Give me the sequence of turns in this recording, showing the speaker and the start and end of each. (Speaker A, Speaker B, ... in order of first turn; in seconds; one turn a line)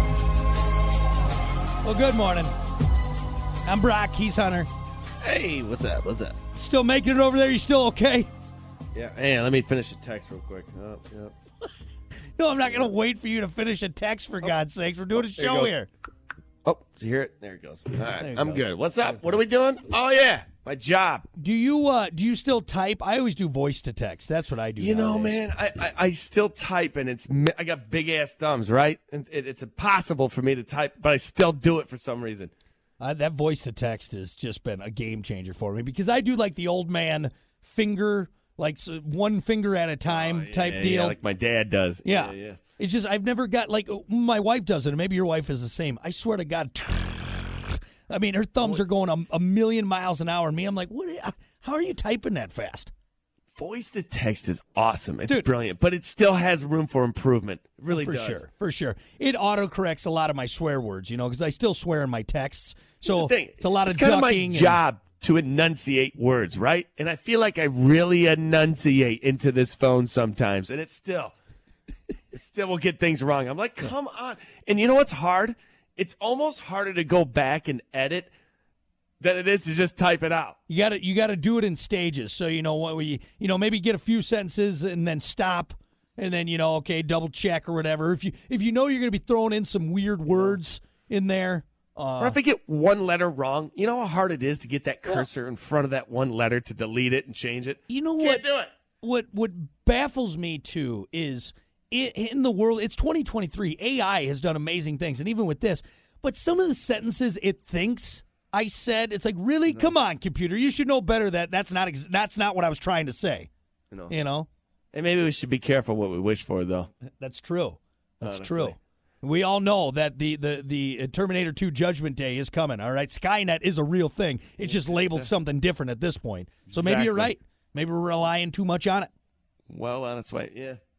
Speaker A: 1.8-2.5
Speaker A: 3.6-4.7
Speaker B: 5.2-6.3
Speaker A: 6.5-8.3
Speaker B: 8.9-11.3
Speaker A: 12.4-15.9
Speaker B: 12.7-12.9
Speaker B: 15.2-15.7
Speaker B: 16.6-21.2
Speaker A: 18.2-18.7
Speaker A: 21.4-25.4
Speaker B: 24.8-32.5
Speaker A: 33.0-41.2
Speaker B: 40.0-42.6
Speaker A: 42.0-52.9
Speaker B: 53.5-58.4
Speaker A: 57.9-64.8
Speaker B: 63.0-71.3
Speaker B: 72.3-78.3
Speaker B: 79.2-80.6
Speaker A: 80.7-92.4
Speaker B: 90.3-90.6
Speaker B: 92.2-98.7
Speaker A: 97.9-98.4
Speaker A: 99.0-113.5
Speaker A: 114.1-114.5
Speaker B: 114.9-116.9
Speaker A: 117.2-129.1
Speaker B: 118.2-118.8
Speaker B: 124.6-125.3
Speaker B: 126.7-127.3
Speaker B: 129.7-130.8